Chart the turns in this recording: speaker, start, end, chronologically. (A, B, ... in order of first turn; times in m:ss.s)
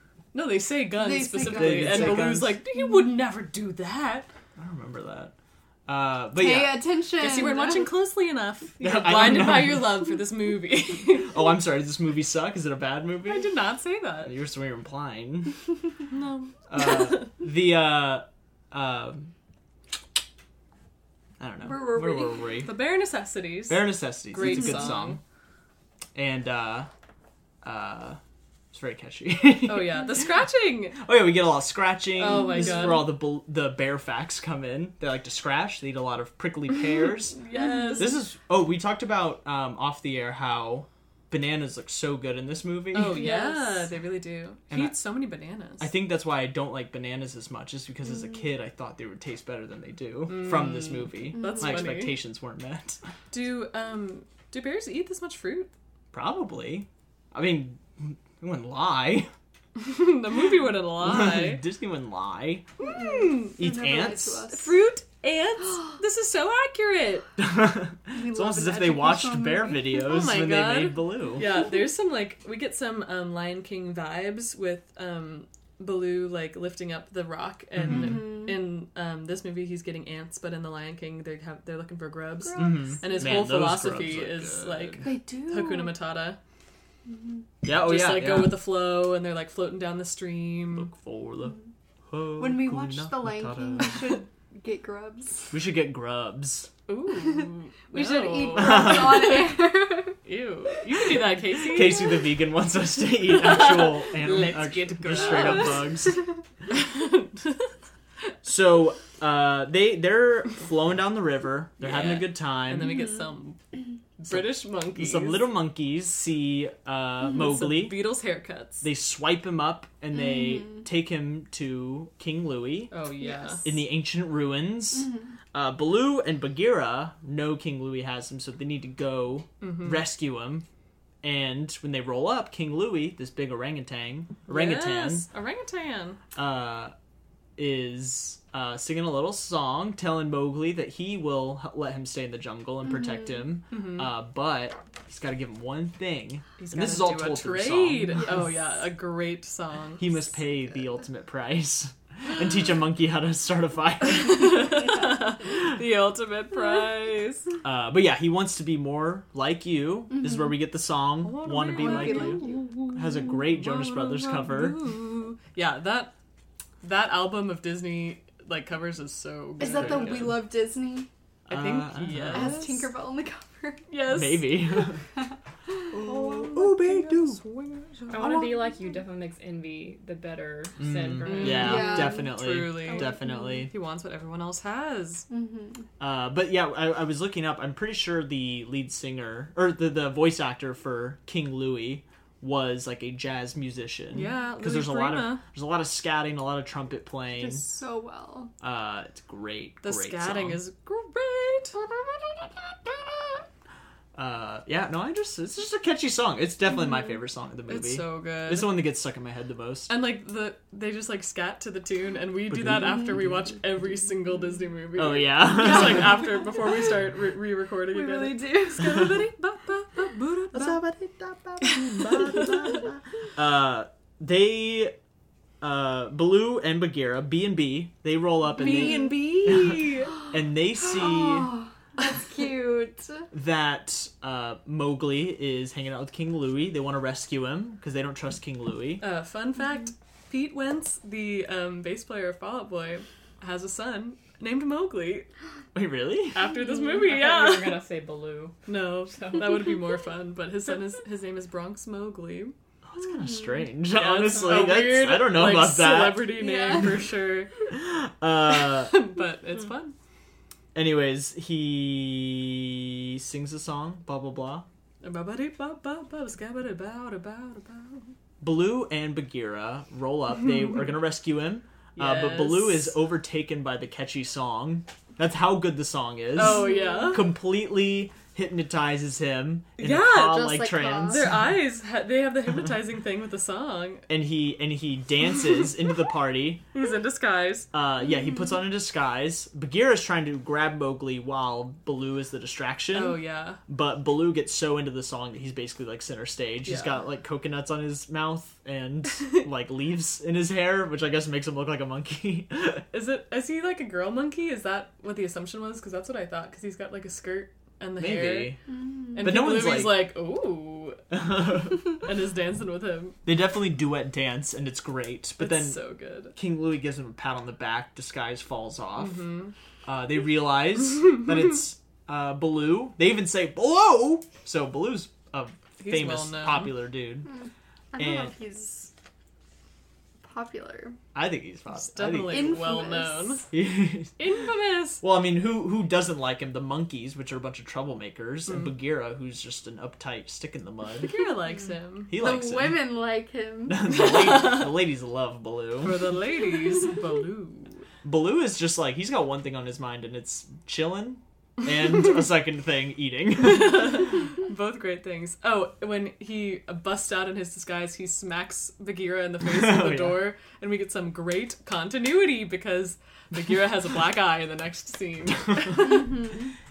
0:00.3-0:04.3 A
0:00.9-0:02.3 B
0:01.4-0:02.6 C
0:04.6-0:05.3 C
0:05.9-0:06.8 C
0:06.3-0:07.9 B
0:07.2-0:11.4 A
0:08.8-0:10.0 C
0:11.3-0:13.6 C
0:13.2-0:14.3 A
0:14.2-0:15.6 C
0:16.1-0:17.3 A
0:16.7-0:19.3 C
0:21.4-0:22.7 C
0:21.6-0:22.5 B
0:22.6-0:25.2 A
0:23.7-0:25.2 C
0:26.1-0:26.9 C
0:27.6-0:28.2 C
0:28.7-0:30.3 C
0:29.6-0:31.0 A
0:30.9-0:37.4 C
0:32.2-0:33.1 A
0:32.5-0:33.0 B
0:37.3-0:38.2 A
0:37.5-0:38.1 B
0:38.0-0:43.3 C
0:42.9-0:45.9 A
0:43.2-0:43.8 B
0:44.7-0:45.0 C
0:45.8-0:53.0 C
0:50.3-0:52.2 A
0:51.3-0:52.0 B
0:53.3-0:55.7 A
0:56.1-0:59.3 C
0:59.8-1:01.6 A
1:01.0-1:02.7 C
1:02.8-1:03.6 A
1:02.8-1:04.7 B
1:03.6-1:04.5 C
1:04.5-1:07.3 A
1:07.4-1:11.5 C
1:08.1-1:10.0 B
1:09.9-1:26.4 A
1:17.8-1:18.3 C
1:17.9-1:18.6 B
1:22.4-1:23.3 B
1:22.6-1:25.1 C
1:25.0-1:25.9 B
1:27.1-1:27.4 B
1:27.6-1:28.6 C
1:27.7-1:30.9 A
1:30.7-1:31.6 C
1:32.1-1:34.2 C
1:32.4-1:35.6 B
1:35.5-1:36.7 C
1:36.9-1:39.6 A
1:37.2-1:40.2 B
1:38.5-1:39.4 C
1:40.2-1:42.2 A
1:41.6-1:46.2 C
1:43.4-1:45.8 A
1:45.1-1:45.6 D
1:46.7-1:47.7 A
1:48.4-1:53.0 C
1:51.8-1:53.6 A
1:54.2-1:55.5 A
1:54.3-1:58.0 C
1:57.3-1:58.9 A
1:58.8-2:02.9 C
2:00.1-2:00.8 B
2:02.9-2:03.7 A
2:03.2-2:03.6 B
2:03.6-2:10.6 C
2:09.6-2:10.0 A
2:11.2-2:15.3 C
2:14.5-2:16.2 A
2:16.3-2:16.9 C
2:17.6-2:28.4 C
2:23.0-2:23.3 B
2:23.7-2:24.1 A
2:26.6-2:30.3 A
2:30.0-2:34.9 C
2:34.0-2:37.5 A
2:37.6-2:44.8 C
2:40.1-2:40.5 B
2:41.2-2:46.1 A
2:41.6-2:42.9 B
2:46.8-2:50.4 A
2:49.6-2:51.1 B
2:49.7-2:50.4 C
2:51.4-2:52.9 A
2:51.5-2:52.6 C
2:52.3-2:53.9 B
2:53.9-2:54.6 A
2:54.1-2:55.0 C
2:55.1-2:55.8 B
2:55.9-2:57.4 C
2:55.9-2:58.4 A
2:58.1-3:01.9 D
3:00.8-3:03.7 C
3:01.2-3:05.3 A
3:01.4-3:03.6 B
3:05.3-3:05.9 B
3:06.0-3:17.6 C
3:14.1-3:15.4 A
3:17.3-3:18.5 B
3:18.6-3:20.6 C
3:19.8-3:21.8 A
3:24.1-3:29.9 C
3:27.7-3:28.8 A
3:29.9-3:40.8 A
3:32.5-3:33.3 C
3:35.0-3:36.1 C
3:35.8-3:36.6 B
3:37.9-3:39.1 B
3:40.5-3:44.9 C
3:41.6-3:42.7 A
3:45.6-3:51.5 C
3:48.6-3:50.1 A
3:48.6-3:49.1 B
3:50.8-3:53.3 B
3:53.3-3:59.0 C
3:59.0-4:05.3 A
4:05.7-4:06.4 C
4:06.3-4:07.8 A
4:06.9-4:09.5 D
4:08.6-4:12.5 A
4:12.8-4:16.3 C
4:13.2-4:13.6 B
4:13.9-4:17.5 A
4:14.3-4:14.7 D
4:16.3-4:17.1 B
4:17.7-4:18.9 C
4:18.6-4:19.9 A
4:20.7-4:24.7 C
4:25.0-4:28.1 A
4:28.4-4:41.4 C
4:32.0-4:33.0 A
4:36.3-4:37.3 A
4:36.4-4:37.2 B
4:39.8-4:44.1 A
4:40.2-4:41.3 B
4:44.1-4:46.6 C
4:46.7-4:47.7 A
4:47.7-5:02.8 C
4:52.9-4:53.6 A
4:56.6-4:56.9 A
5:02.9-5:08.6 A
5:08.0-5:08.6 C
5:08.7-5:09.4 B
5:09.1-5:11.0 A
5:09.2-5:10.1 C
5:11.1-5:11.9 C
5:11.7-5:13.2 A
5:13.2-5:15.8 C
5:15.4-5:16.4 A
5:16.3-5:19.3 C
5:19.0-5:19.5 A
5:19.8-5:27.3 C
5:25.8-5:26.8 A
5:27.2-5:28.9 B
5:28.0-5:28.3 C
5:30.2-5:31.0 B
5:31.1-5:32.6 C
5:31.8-5:33.5 A
5:32.2-5:33.4 B
5:33.5-5:34.2 C
5:34.2-5:35.0 A
5:35.0-5:41.2 C
5:41.0-5:42.2 A
5:42.1-5:43.0 C
5:42.1-5:44.0 B
5:43.7-5:46.1 C
5:43.9-5:44.7 A
5:45.8-5:47.8 A
5:48.0-5:54.1 C
5:53.4-6:06.1 A
5:59.4-6:00.3 C
6:05.8-6:06.5 B